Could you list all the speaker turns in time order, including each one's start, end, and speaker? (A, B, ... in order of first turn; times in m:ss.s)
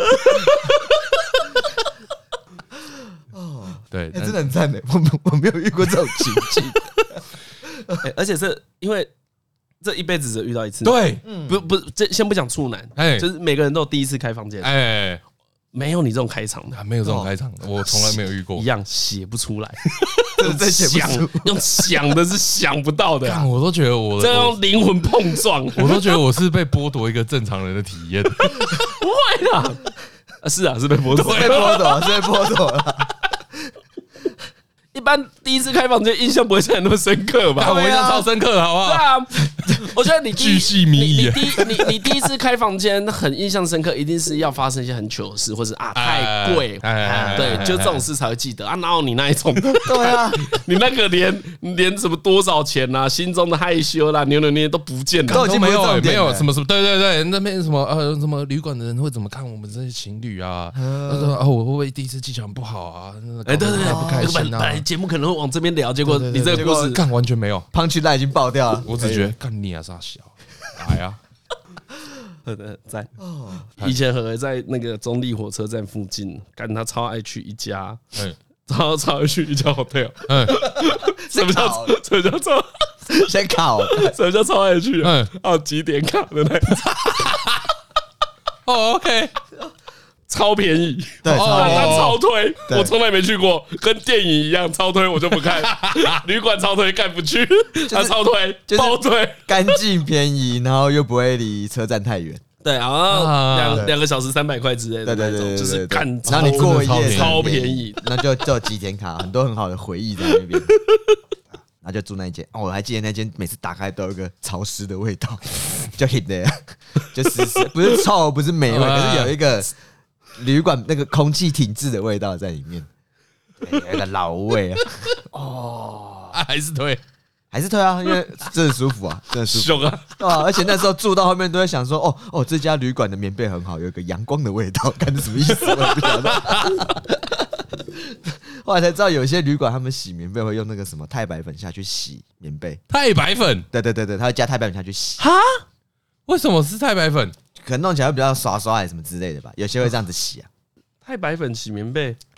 0:03.3-0:08.0 A
0:03.9-0:04.4 B
0:08.0-0:09.1 C
0:09.8-0:14.7 C
0:10.8-0:11.2 B
0:11.2-0:11.6 A
0:13.0-0:13.2 B
0:14.6-0:15.2 B
0:15.7-0:16.8 C
0:16.7-0:18.6 B
0:17.0-0:17.3 A
0:17.9-0:23.5 C
0:20.4-0:22.0 A
0:23.2-0:24.6 B
0:24.2-0:26.0 C
0:25.7-0:28.9 B
0:28.6-0:32.0 C
0:31.1-0:32.0 B
0:31.2-0:33.1 A
0:34.9-0:38.2 C
0:37.6-0:39.0 B
0:37.6-0:38.2 A
0:38.8-0:55.4 C
0:40.3-0:42.2 B
0:45.9-0:48.0 B
0:47.0-0:47.8 A
0:49.6-0:50.4 A
0:55.3-0:56.5 A
0:55.3-1:04.8 B
1:00.8-1:01.3 A
1:03.4-1:07.0 C
1:03.8-1:04.4 A
1:06.0-1:07.7 B
1:06.5-1:07.0 A
1:07.7-1:09.3 A
1:08.8-1:11.2 B
1:12.4-1:13.2 C
1:13.2-1:13.6 A
1:13.8-1:18.0 C
1:18.7-1:23.3 C
1:20.3-1:20.6 B
1:20.7-1:22.0 A
1:23.1-1:24.1 A
1:23.8-1:27.3 C
1:25.0-1:25.3 B
1:27.2-1:27.5 B
1:28.6-1:29.3 B
1:30.3-1:39.8 C
1:31.2-1:32.1 A
1:31.2-1:32.2 B
1:32.7-1:32.9 A
1:35.6-1:36.2 B
1:37.9-1:38.2 A
1:38.7-1:42.4 A
1:42.6-1:48.1 C
1:43.1-1:43.9 B
1:45.0-1:50.8 A
1:46.2-1:47.5 B
1:51.8-1:59.7 A
1:58.7-1:59.4 B
2:00.4-2:02.9 A
2:03.6-2:06.3 A
2:06.3-2:07.0 B
2:07.5-2:22.8 A
2:09.5-2:10.2 C
2:15.6-2:16.8 B
2:22.9-2:23.6 B
2:23.7-2:25.2 A
2:25.2-2:25.6 C
2:26.3-2:27.3 B
2:27.6-2:30.5 A
2:31.0-2:32.2 C